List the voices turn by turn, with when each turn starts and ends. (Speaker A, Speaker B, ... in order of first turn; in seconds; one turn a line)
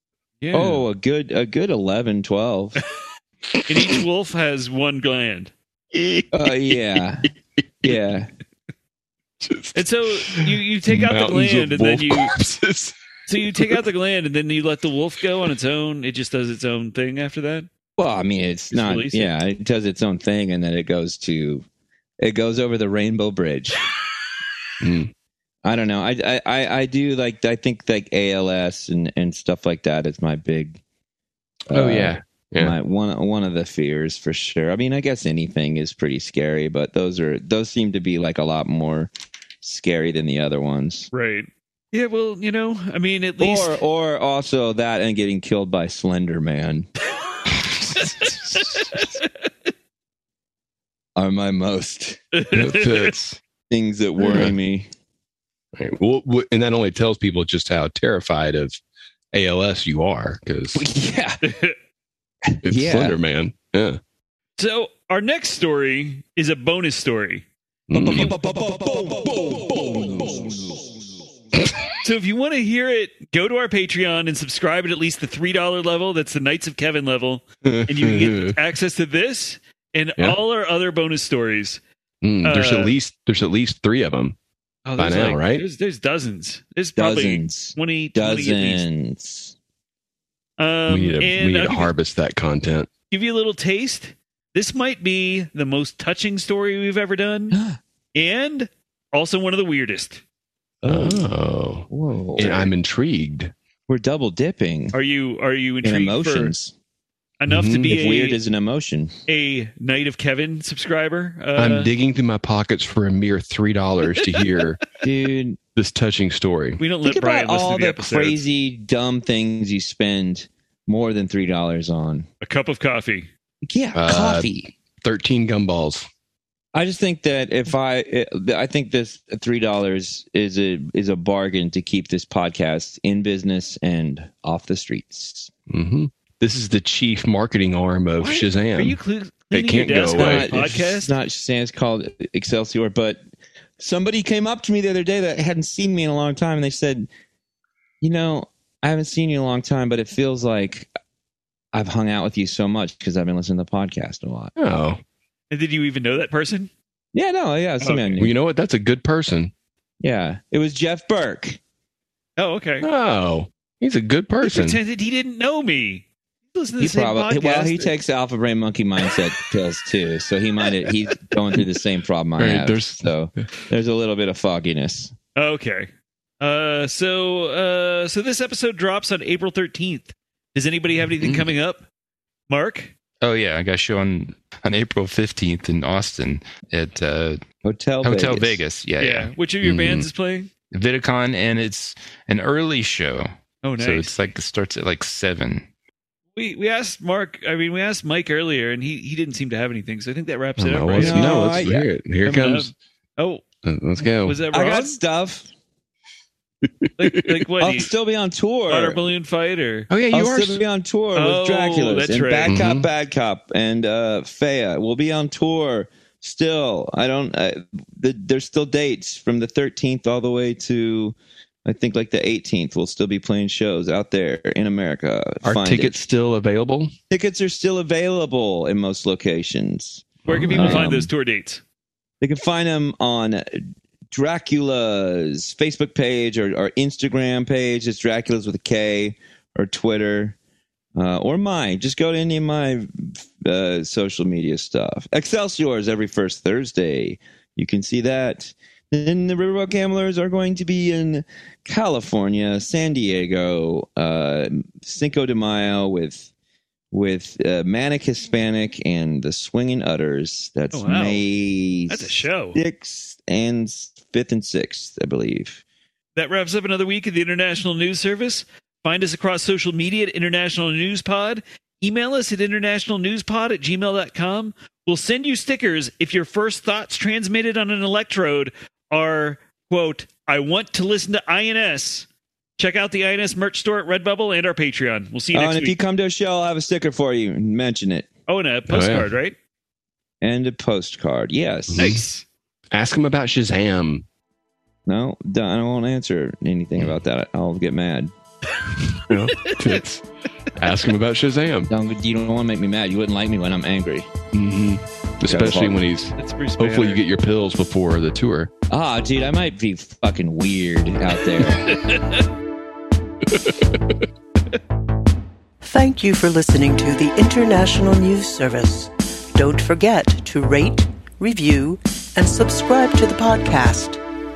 Speaker A: 0.4-0.8
Speaker B: 0.5-2.8
Speaker A: 3.6-5.5
Speaker C: 3.7-4.0
Speaker C: 5.9-7.9
Speaker B: 6.3-7.3
Speaker B: 7.8-8.3
Speaker C: 9.4-12.9
Speaker A: 9.7-12.3
Speaker A: 13.3-17.7
Speaker C: 13.5-13.8
Speaker B: 18.0-21.6
Speaker A: 18.7-19.3
Speaker B: 22.2-23.8
Speaker C: 24.8-25.1
Speaker B: 25.6-30.8
Speaker B: 31.7-39.1
Speaker C: 31.7-32.7
Speaker B: 39.6-41.1
Speaker A: 41.1-43.8
Speaker B: 43.4-46.9
Speaker A: 48.0-49.2
Speaker B: 51.1-52.2
Speaker A: 52.3-53.1
Speaker C: 52.5-53.4
Speaker B: 53.7-54.9
Speaker C: 54.2-54.5
Speaker C: 55.7-58.8
Speaker C: 59.3-60.9
Speaker B: 60.7-61.4
Speaker A: 61.4-61.7
Speaker B: 62.5-63.2
Speaker C: 62.6-64.0
Speaker A: 64.6-67.4
Speaker C: 67.9-68.3
Speaker B: 67.9-70.8
Speaker A: 72.0-81.8
Speaker C: 77.6-78.5
Speaker C: 82.2-84.3
Speaker A: 82.4-82.9
Speaker A: 84.8-88.8
Speaker C: 85.0-85.6
Speaker B: 86.9-89.5
Speaker A: 90.6-91.9
Speaker C: 90.9-92.9
Speaker A: 93.1-97.6
Speaker B: 97.5-97.8
Speaker A: 98.1-100.2
Speaker C: 100.8-103.5
Speaker B: 100.8-101.2
Speaker B: 101.9-102.7
Speaker B: 103.9-105.0
Speaker A: 104.9-106.5
Speaker B: 105.8-106.7
Speaker A: 107.4-108.4
Speaker C: 107.5-107.9
Speaker B: 107.9-109.1
Speaker A: 109.3-111.9
Speaker C: 111.5-114.8
Speaker A: 114.2-114.6
Speaker B: 115.0-115.6
Speaker C: 115.8-116.8
Speaker A: 116.8-118.4
Speaker B: 117.0-122.3
Speaker A: 122.4-123.3
Speaker B: 123.6-124.7
Speaker C: 123.9-126.1
Speaker B: 126.7-135.5
Speaker C: 135.7-139.0
Speaker A: 138.2-141.1
Speaker C: 139.5-140.5
Speaker B: 140.0-143.2
Speaker B: 143.8-147.1
Speaker B: 148.0-150.9
Speaker B: 151.7-154.5
Speaker C: 154.6-155.0
Speaker A: 155.5-156.7
Speaker B: 157.1-158.3
Speaker A: 157.8-158.2
Speaker C: 158.2-159.5
Speaker B: 160.0-161.6
Speaker A: 162.4-162.9
Speaker C: 162.8-164.8
Speaker A: 164.4-167.9
Speaker B: 166.8-175.1
Speaker C: 172.4-173.1
Speaker A: 175.3-175.9
Speaker A: 176.4-181.8
Speaker A: 182.5-182.9
Speaker D: 183.2-187.4
Speaker B: 187.6-188.6
Speaker D: 188.0-189.3
Speaker A: 189.0-190.5
Speaker C: 189.6-190.1
Speaker D: 190.7-195.7
Speaker A: 193.6-194.1
Speaker A: 196.3-201.7
Speaker C: 200.6-202.7
Speaker B: 201.0-201.9
Speaker A: 202.2-203.4
Speaker C: 203.6-204.4
Speaker A: 204.0-205.0
Speaker B: 204.5-205.4
Speaker C: 206.6-207.2
Speaker A: 207.0-207.9
Speaker B: 207.6-209.0
Speaker A: 208.7-209.9
Speaker C: 209.9-210.6
Speaker B: 210.1-226.0
Speaker A: 211.2-212.6
Speaker C: 212.4-212.9
Speaker C: 225.4-226.9
Speaker B: 227.1-231.1
Speaker C: 230.3-231.1
Speaker A: 230.3-231.6
Speaker B: 232.2-240.3
Speaker B: 240.9-256.3
Speaker B: 256.9-265.6
Speaker A: 260.7-261.2
Speaker A: 261.9-262.6
Speaker A: 266.1-282.1
Speaker A: 282.6-285.8
Speaker B: 285.3-288.1
Speaker A: 288.3-289.4
Speaker C: 288.7-289.1
Speaker B: 290.2-292.0
Speaker C: 291.7-292.0
Speaker A: 291.8-292.2
Speaker C: 292.7-294.0
Speaker B: 294.9-298.1
Speaker C: 298.9-301.7
Speaker A: 299.4-299.8
Speaker B: 301.7-304.1
Speaker C: 304.3-308.5
Speaker B: 305.2-305.8
Speaker A: 306.2-307.0
Speaker B: 308.7-311.8
Speaker A: 311.6-312.3
Speaker C: 313.3-314.0
Speaker E: 315.6-324.0